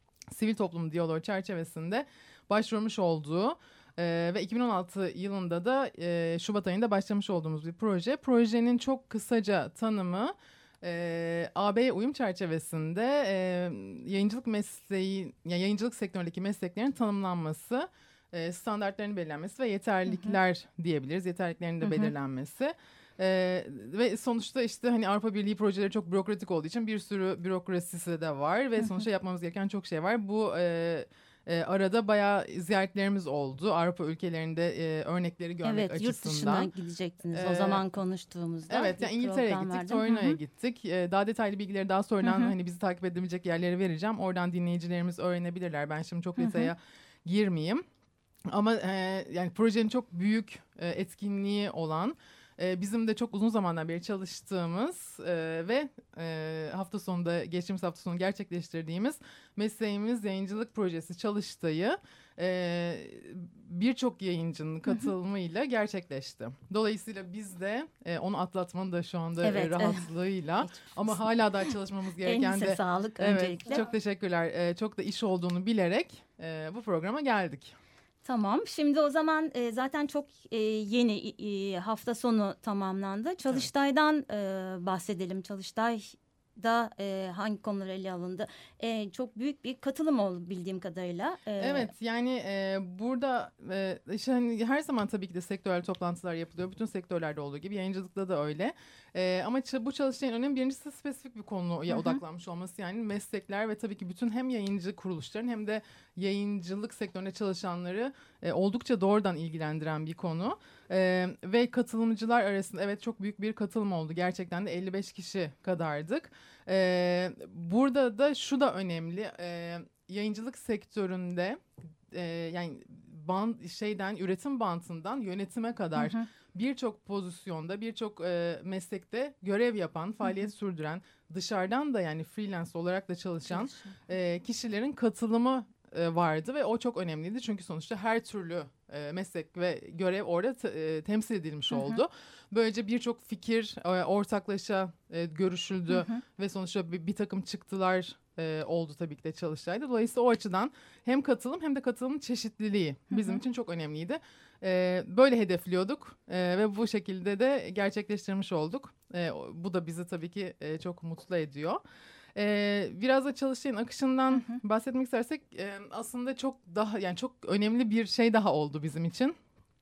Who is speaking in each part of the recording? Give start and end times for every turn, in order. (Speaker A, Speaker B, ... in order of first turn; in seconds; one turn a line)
Speaker A: 0.3-36.7
Speaker B: 20.1-20.4
Speaker B: 21.8-22.1
Speaker B: 35.6-40.4
Speaker A: 37.3-37.8
Speaker A: 38.7-47.8
Speaker B: 42.2-42.5
Speaker B: 46.4-46.7
Speaker A: 48.5-77.8
Speaker B: 69.4-70.1
Speaker B: 70.6-71.2
Speaker B: 72.2-73.8
Speaker B: 78.2-91.9
Speaker A: 91.6-161.8
Speaker B: 101.9-102.2
Speaker B: 126.0-126.3
Speaker B: 133.5-134.0
Speaker B: 141.7-142.0
Speaker B: 145.9-146.2
Speaker B: 153.1-153.4
Speaker A: 162.3-169.4
Speaker B: 164.3-164.6